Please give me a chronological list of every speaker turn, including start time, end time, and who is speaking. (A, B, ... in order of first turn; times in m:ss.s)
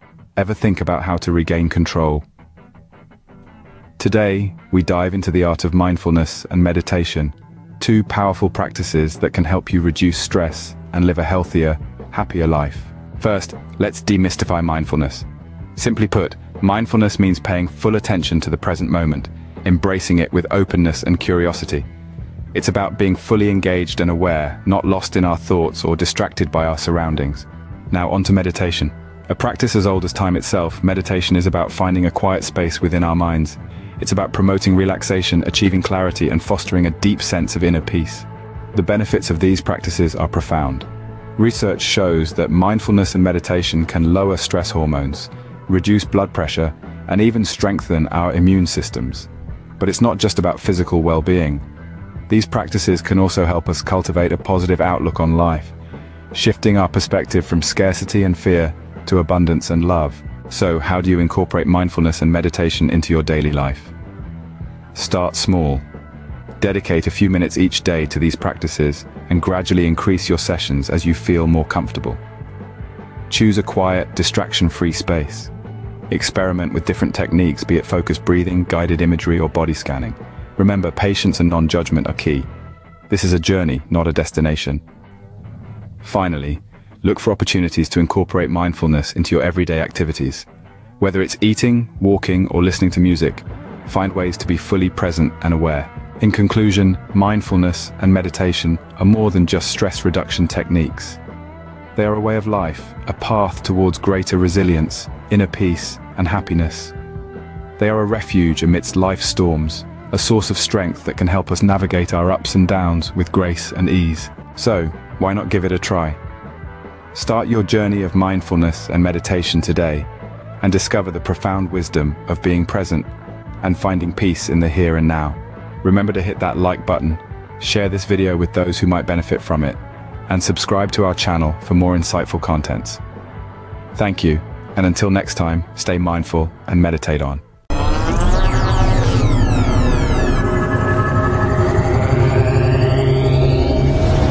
0:00.4-0:02.2 A
0:04.0-0:21.9 A
0:22.5-0:51.6 A
0:52.3-0:55.7 A
0:56.3-1:03.9 A
1:05.0-1:05.8 A
1:06.6-1:12.2 A
1:13.3-1:15.5 A
1:16.1-1:22.5 A
1:23.1-1:24.8 A
1:26.0-1:30.5 A
1:31.0-1:41.2 A
1:42.0-1:46.9 A
1:47.8-1:56.2 A
1:57.1-2:00.1 A
2:00.6-2:03.1 A
2:03.6-2:13.0 A
2:14.0-2:17.4 A